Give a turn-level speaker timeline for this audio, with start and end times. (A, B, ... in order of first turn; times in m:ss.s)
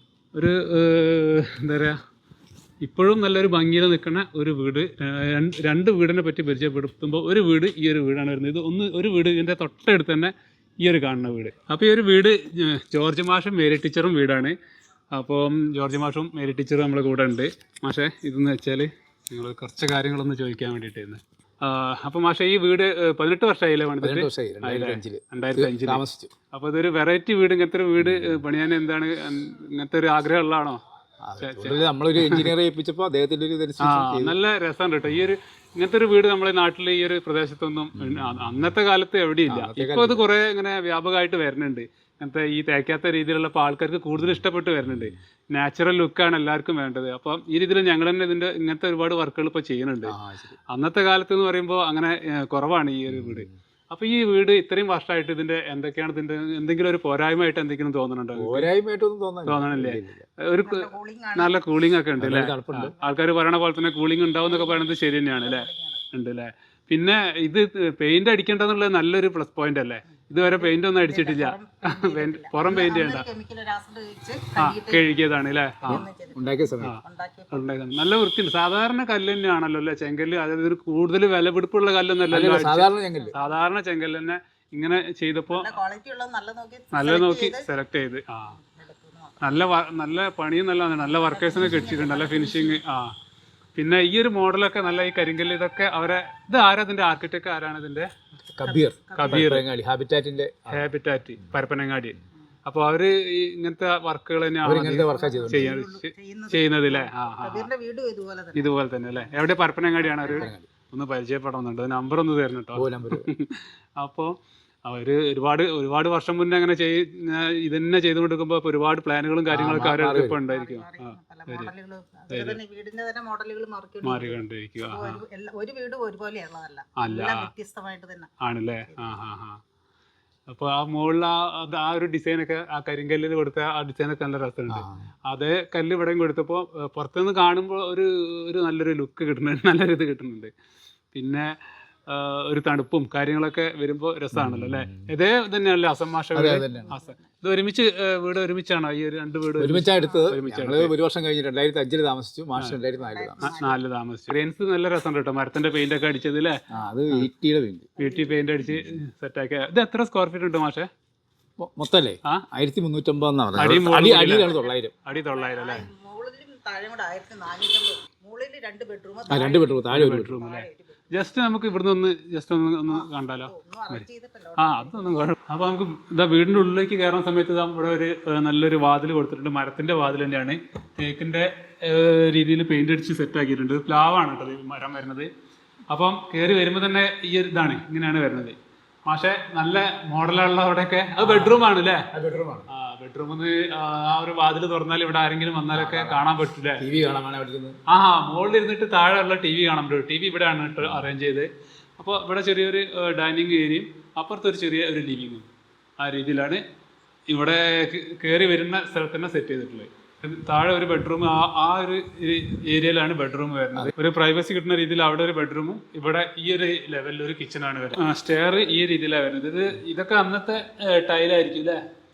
0:00.3-0:02.0 A
0:02.8-0:14.6 A
0:15.1-0:30.8 A
0:24.0-0:26.3 B
0:28.0-0:28.4 B
0:31.2-0:34.4 B
0:31.4-0:32.5 A
0:33.8-0:50.2 A
0:39.5-0:40.2 B
0:50.1-0:50.6 B
0:50.7-0:58.7 A
0:53.1-0:53.5 B
0:58.4-1:00.2 B
0:59.4-1:13.3 A
1:00.6-1:01.8 C
1:02.2-1:02.9 B
1:04.4-1:06.0 C
1:10.4-1:15.1 C
1:14.6-1:16.1 A
1:15.8-1:17.7 C
1:15.9-1:16.9 B
1:16.8-1:25.8 A
1:22.3-1:23.4 B
1:23.1-1:23.7 C
1:25.5-1:27.7 C
1:26.9-1:28.6 A
1:28.5-1:29.4 C
1:29.4-1:33.1 A
1:31.0-1:32.8 C
1:33.8-1:38.1 A
1:38.6-1:40.8 B
1:38.6-1:39.5 C
1:39.1-1:39.6 A
1:40.7-1:47.7 A
1:44.6-1:45.7 B
1:44.8-1:50.5 C
1:48.6-2:01.7 A
1:50.3-1:50.6 B
1:52.8-1:53.3 B
1:59.5-2:00.4 B
2:00.4-2:08.3 C
2:02.3-2:02.6 A
2:04.0-2:05.2 A
2:07.0-2:07.5 A
2:08.4-2:09.6 A
2:08.9-2:09.2 C
2:10.5-2:20.5 A
2:14.7-2:15.0 B
2:21.1-2:21.5 A
2:22.1-2:31.0 A
2:24.3-2:25.1 B
2:26.4-2:27.0 B
2:26.9-2:27.2 C
2:29.6-2:33.4 B
2:32.6-2:32.8 A
2:33.0-2:33.8 C
2:33.4-2:36.6 A
2:36.7-2:37.9 B
2:38.0-2:38.8 C
2:38.0-2:40.9 A
2:41.6-2:45.0 B
2:43.6-2:45.9 A
2:44.4-2:51.4 C
2:49.3-2:50.4 B
2:49.9-2:54.0 A
2:52.9-2:55.3 C
2:54.6-3:05.3 A
3:05.9-3:12.0 A
3:11.2-3:12.7 B
3:12.7-3:16.8 A
3:15.7-3:16.2 B
3:16.8-3:17.8 B
3:17.9-3:21.5 A
3:22.0-3:25.5 A
3:26.0-3:26.6 A
3:27.3-3:41.8 A